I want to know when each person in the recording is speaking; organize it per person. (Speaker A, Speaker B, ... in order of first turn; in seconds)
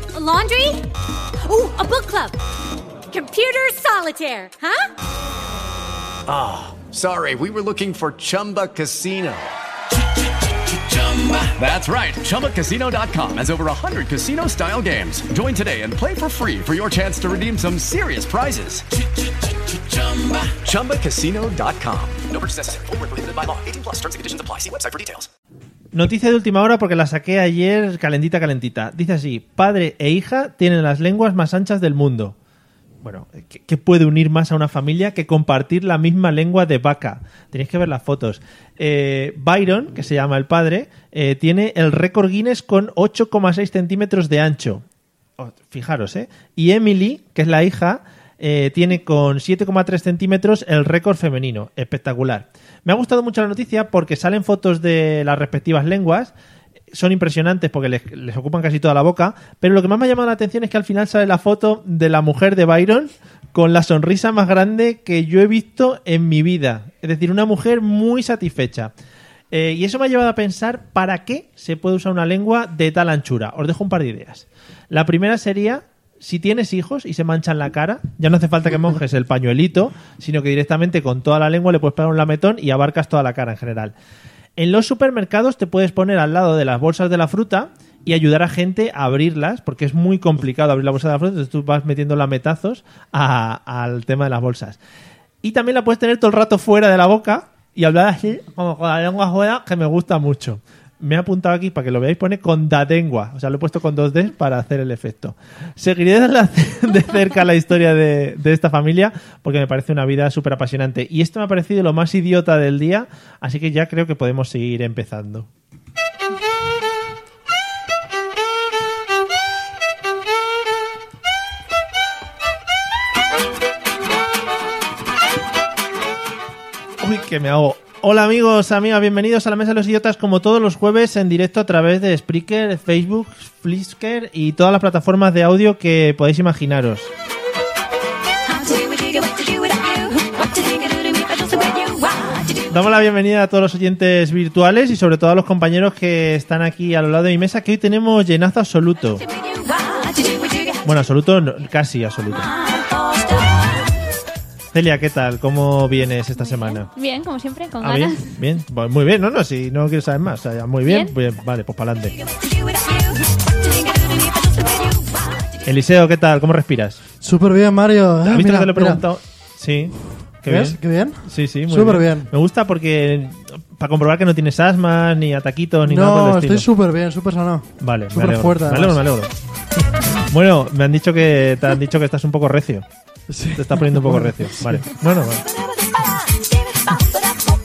Speaker A: 0.1-0.9, 1.4-2.4, 3.1-4.9
Speaker B: 6.3-9.5, 10.9-18.9, 19.6-25.3
Speaker C: 25.9-32.4, 33.0-44.8, 45.4-56.3, 56.9-68.9, 69.5-83.9, 84.6-94.8, 95.4-115.5, 127.0-137.1, 142.7-149.2, 150.8-152.5, 154.7-156.9, 157.8-162.2, 165.7-167.0, 168.3-176.7, 177.8-179.3, 180.3-182.8, 183.6-185.4
Speaker D: 149.9-150.4, 156.4-158.3, 160.9-161.2
Speaker E: 167.2-169.0, 170.5-172.3, 175.8-179.0, 183.3-184.8